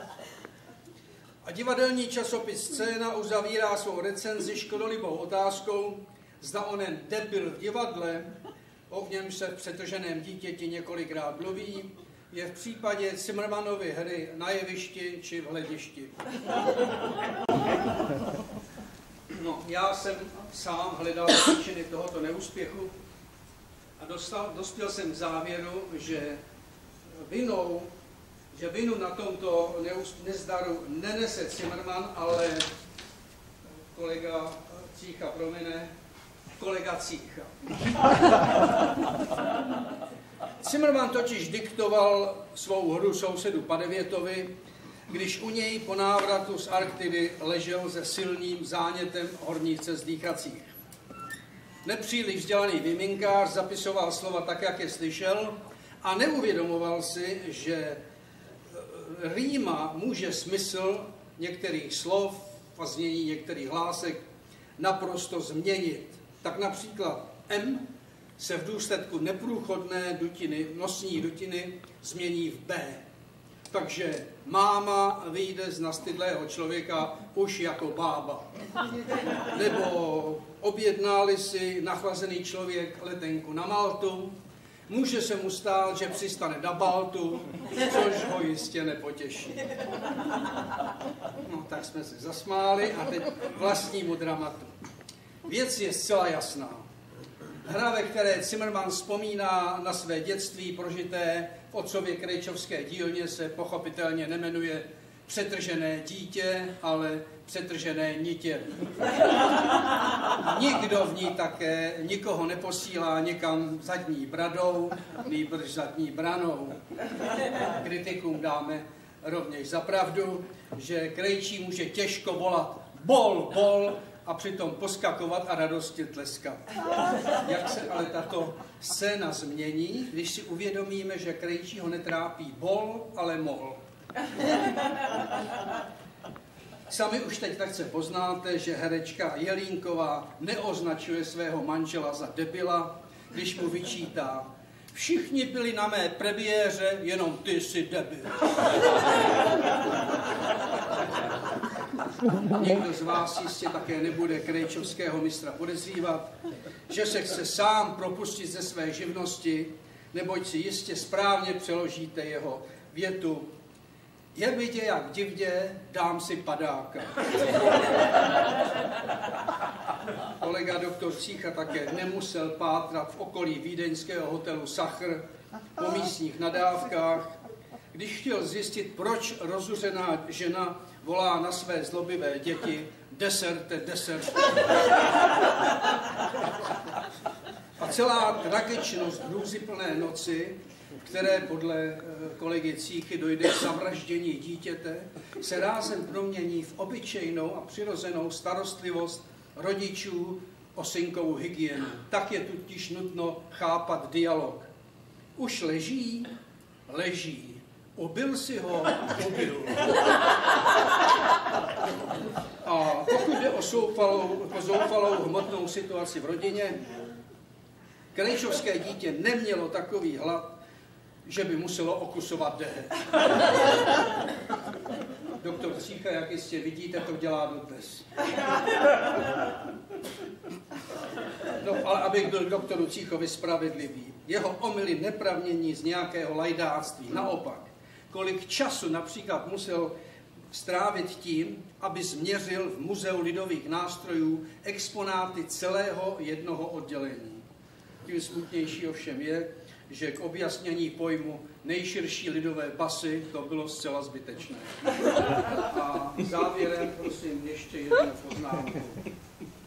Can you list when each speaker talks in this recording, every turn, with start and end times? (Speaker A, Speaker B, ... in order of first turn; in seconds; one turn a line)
Speaker A: 1.4-8.3
Speaker A: 8.9-16.2
Speaker A: 19.3-22.9
Speaker A: 24.0-26.4
Speaker A: 27.1-27.9
Speaker A: 28.5-32.7
Speaker A: 33.9-35.9
Speaker A: 36.5-37.5
Speaker A: 40.6-44.5
Speaker A: 45.1-50.7
Speaker A: 51.8-58.0
Speaker A: 58.7-64.2
Speaker A: 64.8-73.0
Speaker A: 73.7-78.5
Speaker A: 79.5-84.4
Speaker A: 84.9-89.7
Speaker A: 91.4-94.7
Speaker A: 95.4-96.8
Speaker A: 97.6-109.2
Speaker A: 110.4-116.8
Speaker A: 117.7-126.7
Speaker A: 127.4-133.8
Speaker A: 136.9-149.8
Speaker A: 150.9-151.4
Speaker A: 152.5-156.3
Speaker A: 156.9-163.5
Speaker A: 164.3-168.4
Speaker A: 170.4-175.2
Speaker A: 175.8-177.3
Speaker A: 177.9-184.8
Speaker A: 187.8-204.7
Speaker A: 205.3-206.3
Speaker A: 206.9-210.3
Speaker A: 212.6-217.0
Speaker A: 218.1-220.6
Speaker A: 221.2-223.5
Speaker A: 225.4-228.1
Speaker A: 231.6-239.9
Speaker A: 240.5-247.4
Speaker A: 248.0-259.1